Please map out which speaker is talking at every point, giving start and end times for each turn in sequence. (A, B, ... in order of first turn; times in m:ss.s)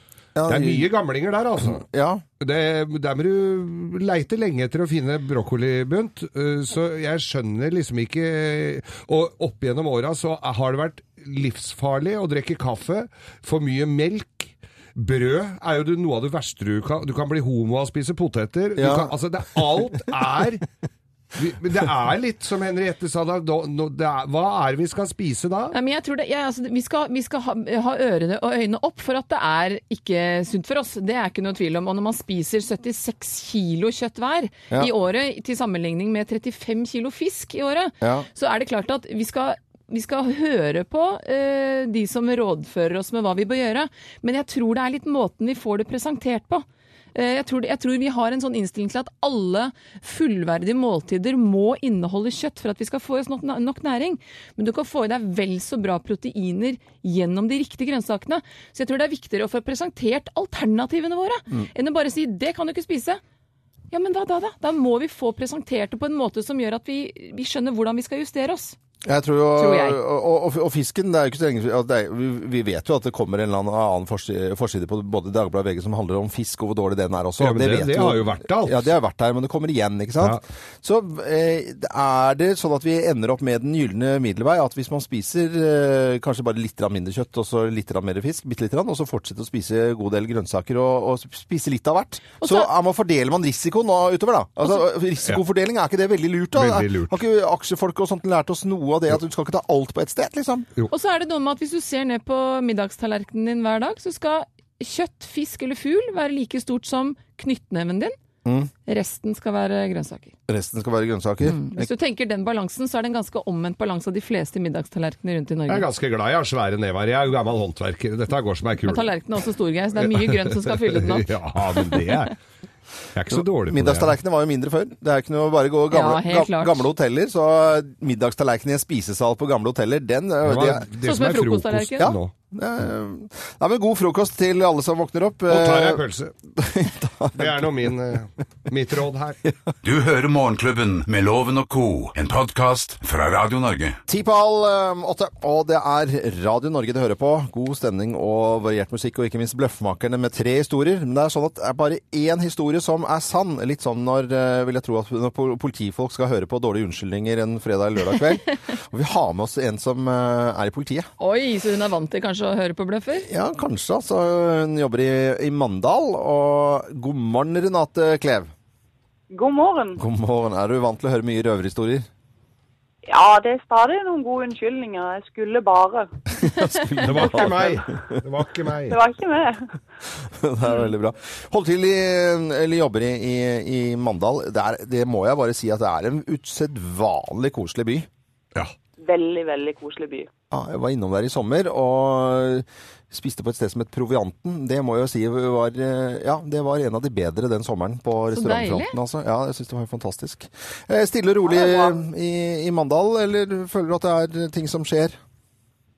0:00.4-0:00.9 A
0:00.5-0:01.8 B
0:01.6-0:02.2 A
0:02.4-0:20.6 B
0:18.8-0:19.1 A
0:21.4-0:25.7 B
0:25.7-1:03.2 C
0:38.0-0:38.3 A
1:03.9-1:08.8 C
1:09.0-1:40.7 A
1:09.6-1:10.0 C
1:17.4-1:18.9 B
1:32.4-1:32.7 C
1:36.5-1:37.1 B
1:40.9-1:48.2 C
1:48.4-1:48.7 A
1:48.8-1:50.3 C
1:50.5-1:51.9 A
1:51.4-1:55.9 C
1:55.7-1:59.1 B
1:58.8-2:01.4 C
2:00.0-2:02.4 B
2:03.1-2:04.1 B
2:03.3-2:10.9 A
2:05.9-2:06.9 C
2:10.4-2:12.3 B
2:11.0-2:12.1 C
2:12.0-2:16.0 A
2:15.5-2:16.3 B
2:16.6-2:18.0 A
2:17.4-2:19.4 B
2:19.4-2:19.7 A
2:19.8-2:24.0 D
2:24.1-2:41.1 A
2:41.2-2:43.3 C
2:43.2-2:48.5 A
2:49.3-2:50.0 E
2:50.0-2:52.1 A
2:53.0-2:56.1 E
2:56.4-2:58.2 A
2:57.0-2:59.0 B
2:58.9-2:59.7 E
3:00.2-3:08.1 A
3:09.0-3:10.3 E
3:10.5-3:25.2 A
3:18.3-3:18.9 C
3:21.5-3:22.0 E